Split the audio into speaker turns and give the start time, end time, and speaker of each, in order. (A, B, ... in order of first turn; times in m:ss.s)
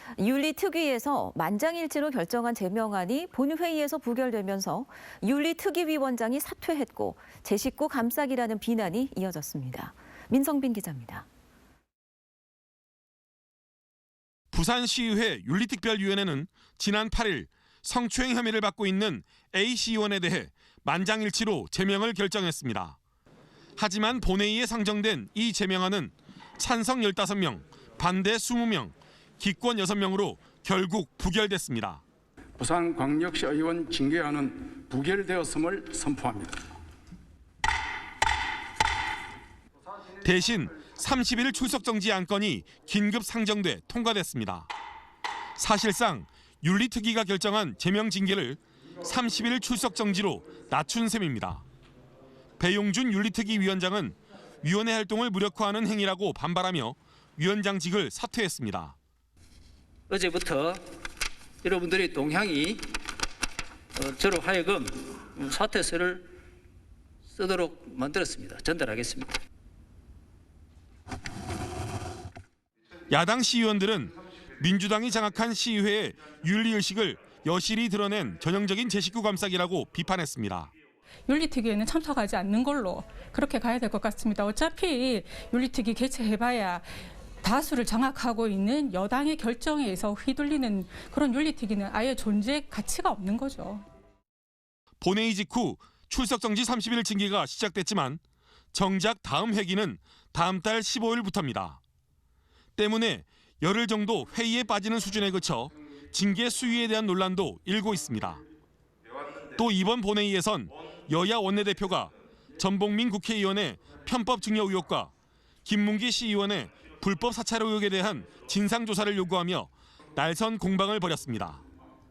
0:00.2-0:11.3 A
0:14.5-0:23.0 B
0:23.8-0:32.0 B
0:32.6-0:36.5 C
0:40.2-0:44.7 B
0:45.6-0:51.6 B
0:52.6-0:59.0 B
1:00.1-1:00.8 D
1:01.6-1:02.9 D
1:04.0-1:06.3 D
1:07.3-1:09.3 D
1:13.1-1:20.7 B
1:21.3-1:33.8 E
1:35.0-1:38.2 B
1:38.7-1:41.8 B
1:42.8-1:48.4 B
1:49.5-1:55.1 B
1:55.6-2:01.6 B